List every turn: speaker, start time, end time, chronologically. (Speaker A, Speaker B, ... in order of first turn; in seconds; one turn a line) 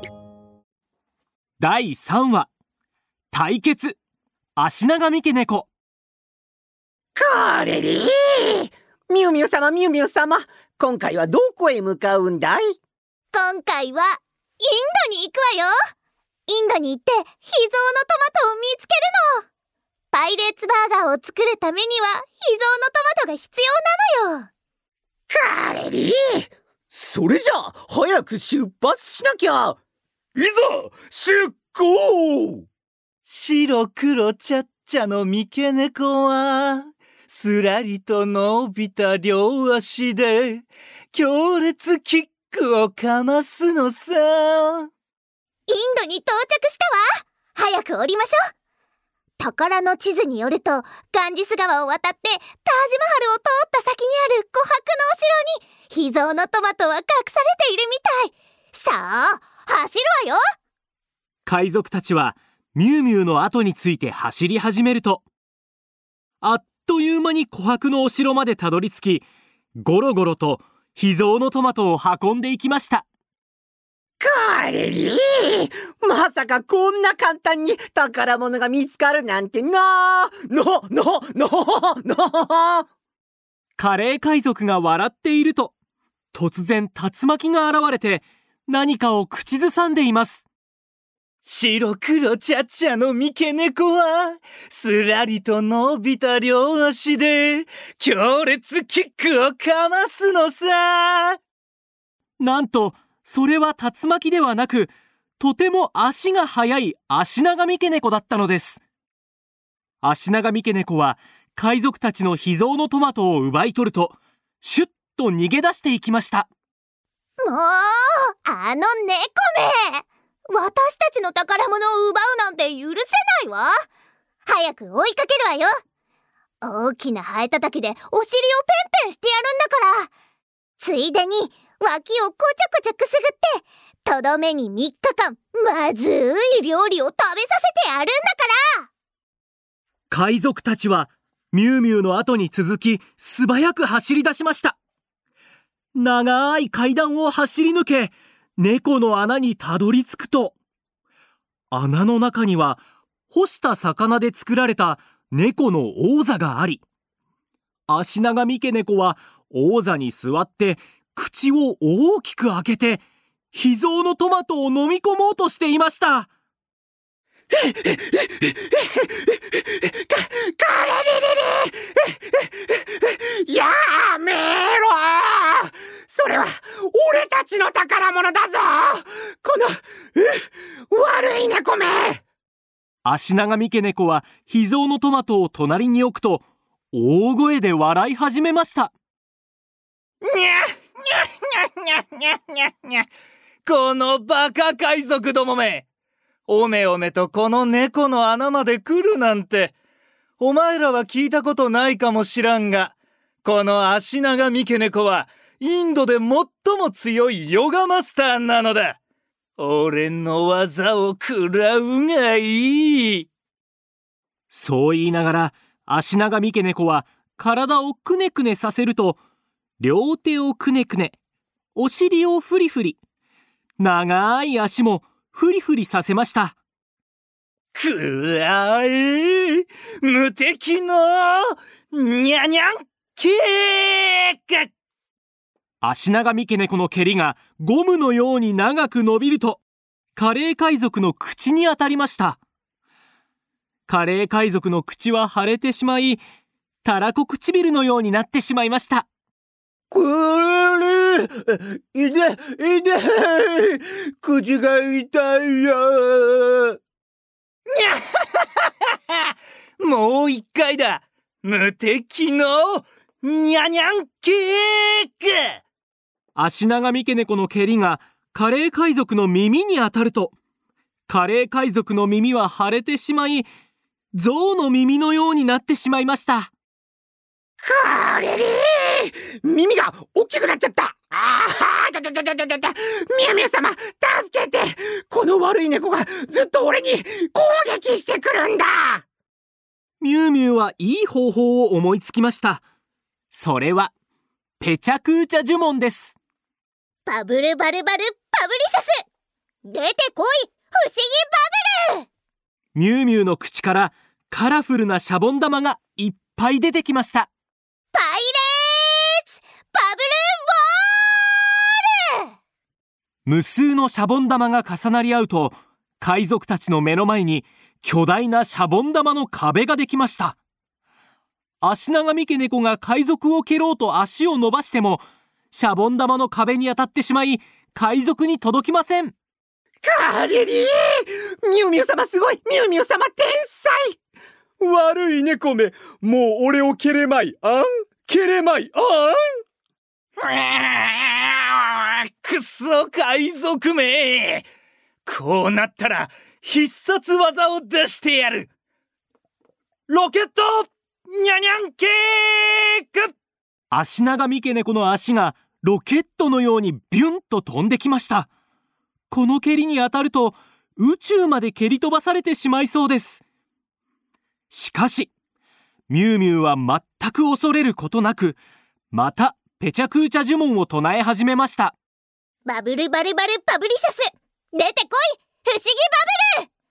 Speaker A: 1.6-2.5
Speaker A: 3.3-4.0
Speaker A: 4.6-5.7
Speaker B: 7.1-12.8
Speaker C: 13.3-15.7
Speaker C: 16.5-19.4
Speaker C: 20.1-24.5
Speaker B: 25.3-29.8
Speaker B: 30.4-32.6
Speaker D: 33.3-44.9
Speaker C: 45.7-48.4
Speaker C: 49.4-60.4
Speaker A: 61.5-65.2
Speaker A: 66.4-69.2
Speaker A: 69.8-73.0
Speaker B: 74.2-82.9
Speaker A: 83.8-85.7
Speaker A: 86.3-90.4
Speaker D: 91.4-101.4
Speaker A: 102.4-108.8
Speaker A: 110.0-116.5
Speaker C: 117.4-123.7
Speaker C: 124.5-125.7
Speaker C: 126.6-130.1
Speaker C: 130.8-138.9
Speaker A: 140.1-144.8
Speaker A: 145.9-150.5
Speaker A: 151.7-156.8
Speaker A: 157.9-166.3
Speaker B: 167.5-182.2
Speaker A: 183.0-188.9
Speaker D: 190.2-193.1
Speaker D: 193.7-195.8
Speaker D: 196.5-199.7
Speaker D: 200.4-202.9
Speaker D: 203.4-209.0
Speaker D: 209.6-213.3
Speaker A: 214.5-219.2
Speaker A: 219.8-221.1
Speaker A: 221.7-223.0
Speaker A: 223.8-226.6
Speaker D: 227.7-234.7
Speaker A: 235.8-239.6
Speaker A: 240.2-242.4
Speaker A: 243.9-246.2
Speaker A: 246.8-249.1
Speaker B: 249.9-256.8
Speaker D: 257.8-258.5
Speaker D: 259.8-265.6
Speaker A: 266.3-270.3
Speaker A: 271.1-273.5
Speaker A: 274.1-276.5
Speaker B: 277.6-289.0
Speaker A: 290.0-292.6
Speaker A: 293.3-293.9
Speaker A: 294.6-296.1
Speaker C: 297.1-298.9
Speaker C: 299.7-302.1
Speaker A: 302.7-307.3
Speaker C: 307.9-312.2
Speaker A: 313.2-320.4
Speaker A: 321.6-329.1
Speaker B: 329.8-333.9
Speaker A: 334.6-335.2
Speaker E: 334.7-339.2
Speaker D: 340.2-344.4
Speaker D: 345.1-348.5
Speaker D: 349.9-353.1
Speaker A: 353.7-358.3
Speaker A: 359.1-363.2
Speaker A: 364.5-365.1
Speaker A: 365.9-368.4
Speaker A: 368.9-371.7
Speaker C: 372.4-376.5